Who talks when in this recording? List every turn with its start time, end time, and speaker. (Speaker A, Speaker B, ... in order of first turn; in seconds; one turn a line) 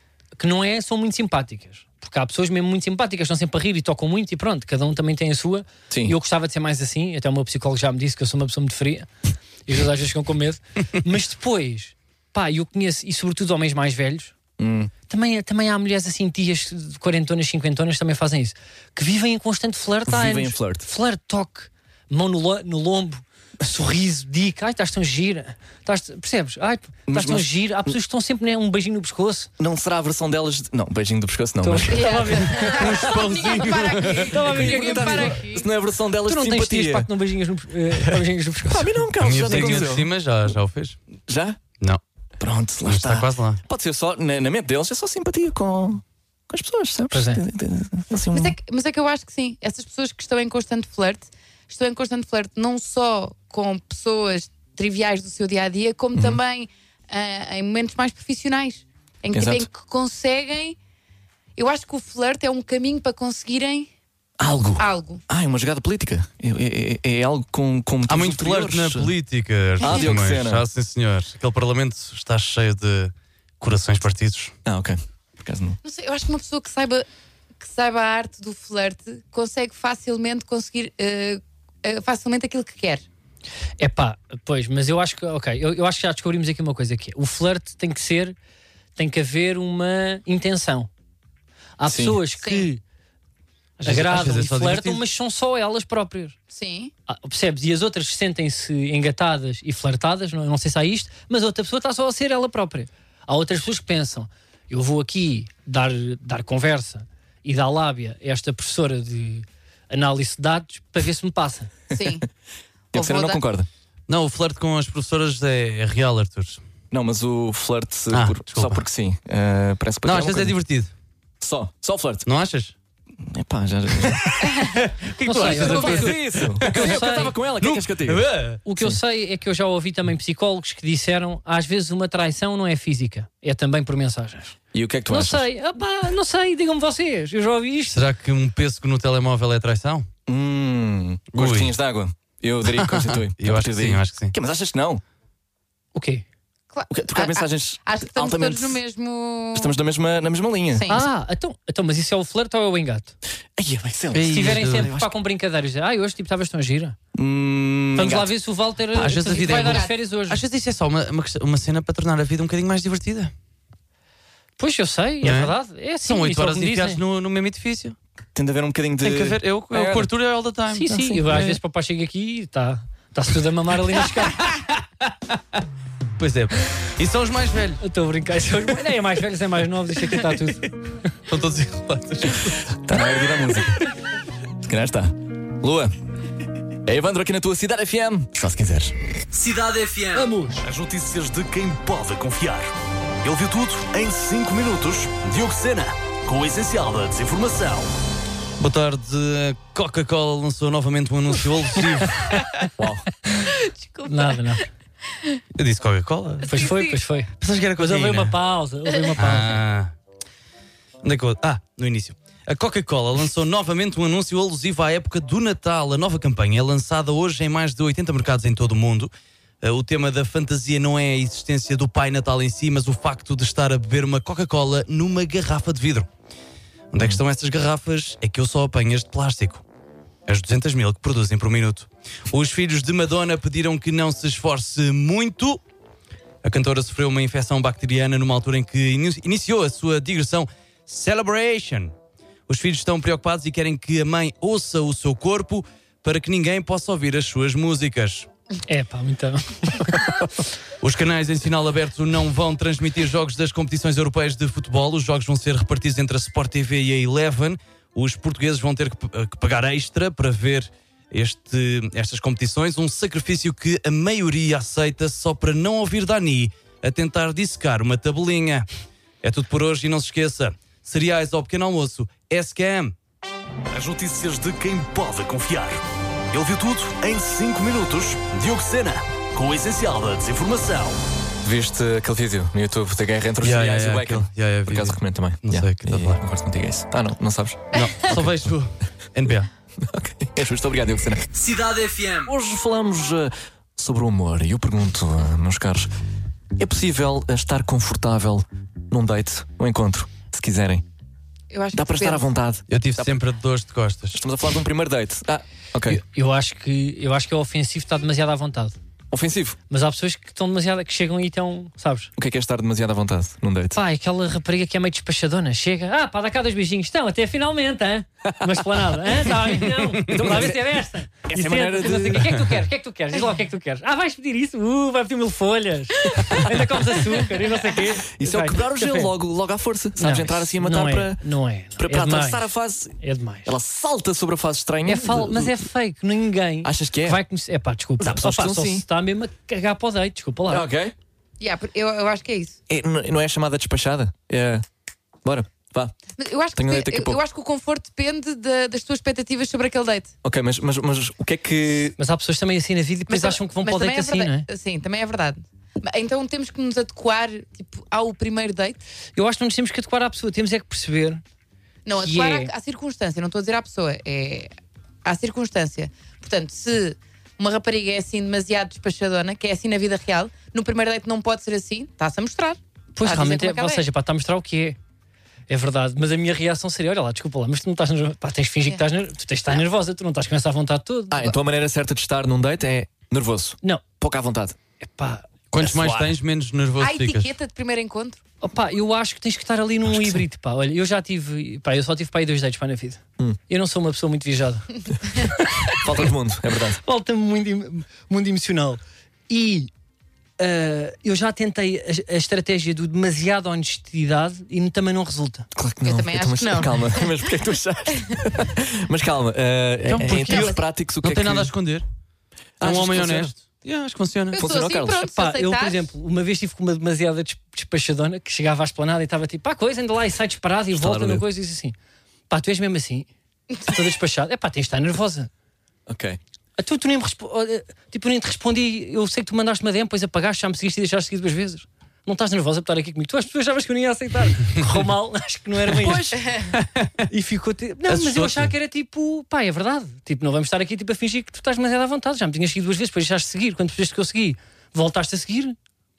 Speaker A: 0.4-9.1
Speaker B: 5.9-6.2
Speaker A: 9.7-14.3
Speaker B: 14.6-14.9
Speaker A: 15.1-29.5
Speaker B: 20.1-20.9
Speaker B: 27.1-28.0
Speaker B: 29.6-32.4
Speaker A: 31.6-35.4
Speaker C: 31.9-35.7
Speaker D: 32.5-34.5
Speaker B: 34.4-37.1
Speaker A: 36.2-39.9
Speaker B: 38.7-40.1
Speaker D: 39.2-41.0
Speaker B: 41.3-41.6
Speaker B: 42.4-48.6
Speaker D: 42.9-43.6
Speaker A: 47.1-47.4
Speaker C: 48.3-60.8
Speaker B: 56.1-56.4
Speaker B: 59.3-59.7
Speaker C: 61.6-63.9
Speaker B: 64.4-69.1
Speaker C: 64.8-65.2
Speaker D: 68.1-74.5
Speaker C: 69.8-70.2
Speaker B: 69.8-70.7
Speaker B: 74.7-75.8
Speaker C: 75.8-77.1
Speaker C: 77.6-83.0
Speaker A: 83.8-88.3
Speaker A: 89.0-90.9
Speaker A: 91.8-92.8
Speaker B: 91.9-92.2
Speaker C: 92.4-92.7
Speaker D: 93.8-95.0
Speaker A: 93.8-96.4
Speaker C: 96.5-96.9
Speaker A: 97.1-111.7
Speaker C: 111.9-112.3
Speaker B: 112.9-113.7
Speaker C: 112.9-113.4
Speaker D: 114.1-116.6
Speaker B: 116.9-120.6
Speaker D: 118.1-118.8
Speaker D: 120.0-120.9
Speaker B: 121.4-122.3
Speaker D: 122.3-122.7
Speaker B: 123.2-124.5
Speaker D: 124.0-128.6
Speaker A: 125.2-127.3
Speaker B: 125.4-129.0
Speaker A: 128.7-138.1
Speaker B: 134.7-135.5
Speaker D: 137.9-140.1
Speaker B: 140.3-145.0
Speaker D: 141.3-141.7
Speaker D: 142.8-144.3
Speaker A: 145.9-146.3
Speaker C: 146.7-149.7
Speaker B: 146.9-148.8
Speaker B: 149.5-150.9
Speaker C: 150.7-151.1
Speaker A: 150.9-153.1
Speaker B: 153.6-155.1
Speaker D: 154.1-154.9
Speaker A: 154.3-157.0
Speaker B: 157.2-158.3
Speaker A: 157.9-160.4
Speaker D: 158.9-163.3
Speaker C: 159.3-159.9
Speaker A: 164.6-167.0
Speaker D: 165.2-168.0
Speaker B: 168.3-170.1
Speaker D: 169.0-171.6
Speaker A: 170.7-174.6
Speaker B: 170.9-171.2
Speaker D: 174.4-175.3
Speaker D: 176.2-177.8
Speaker A: 177.8-180.7
Speaker D: 181.3-182.7
Speaker B: 182.7-183.9
Speaker B: 184.6-185.9
Speaker B: 186.8-188.9
Speaker E: 189.3-192.7
Speaker A: 190.2-190.6
Speaker E: 193.2-197.9
Speaker D: 198.6-202.6
Speaker B: 202.8-203.1
Speaker C: 203.4-204.4
Speaker A: 204.1-204.7
Speaker D: 205.6-206.7
Speaker C: 206.4-207.0
Speaker A: 206.4-209.6
Speaker D: 207.4-208.3
Speaker D: 209.2-209.9
Speaker D: 211.0-219.1
Speaker D: 219.6-226.1
Speaker D: 226.9-229.6
Speaker D: 230.3-235.6
Speaker D: 236.4-241.9
Speaker D: 242.5-248.3
Speaker A: 248.7-250.2
Speaker D: 250.8-268.7
Speaker D: 269.2-272.9
Speaker E: 273.7-281.0
Speaker B: 281.4-288.2
Speaker D: 283.4-286.2
Speaker D: 287.7-289.5
Speaker B: 289.8-291.3
Speaker E: 291.3-292.3
Speaker B: 292.3-295.9
Speaker B: 296.6-300.9
Speaker C: 301.5-302.3
Speaker B: 301.7-303.2
Speaker D: 302.7-304.2
Speaker B: 304.1-306.0
Speaker A: 305.9-308.8
Speaker B: 309.1-309.6
Speaker A: 309.7-312.1
Speaker B: 312.2-313.8
Speaker A: 313.7-329.1
Speaker B: 318.4-322.5
Speaker B: 327.9-331.2
Speaker A: 330.0-333.5
Speaker B: 331.8-335.6
Speaker A: 334.9-340.7
Speaker B: 336.6-337.2
Speaker B: 338.0-338.9
Speaker B: 340.5-340.9
Speaker C: 341.4-342.6
Speaker B: 342.7-344.6
Speaker B: 345.2-345.9
Speaker C: 346.2-350.1
Speaker B: 346.6-347.2
Speaker B: 350.2-352.0
Speaker A: 352.0-354.5
Speaker C: 353.1-358.8
Speaker A: 359.2-361.2
Speaker C: 361.9-364.5
Speaker A: 362.0-362.5
Speaker C: 365.1-373.8
Speaker A: 372.9-374.8
Speaker A: 375.5-381.4
Speaker B: 381.1-384.6
Speaker A: 384.8-385.3
Speaker D: 385.5-387.3
Speaker B: 385.6-386.1
Speaker C: 386.8-388.2
Speaker A: 388.4-395.9
Speaker B: 389.9-390.2
Speaker B: 395.6-396.8
Speaker A: 396.8-399.7
Speaker A: 400.4-405.5
Speaker B: 405.6-411.5
Speaker C: 405.8-407.1
Speaker D: 409.9-411.9
Speaker C: 410.3-410.6
Speaker B: 412.6-413.3
Speaker D: 412.6-414.4
Speaker C: 414.3-415.9
Speaker B: 414.3-415.1
Speaker A: 415.0-421.8
Speaker B: 420.7-421.2
Speaker A: 422.3-423.1
Speaker A: 423.6-425.3
Speaker B: 425.9-426.2
Speaker A: 426.6-436.2
Speaker B: 435.7-436.2
Speaker C: 436.2-436.5
Speaker D: 436.5-436.9
Speaker A: 437.1-445.6
Speaker D: 437.9-438.5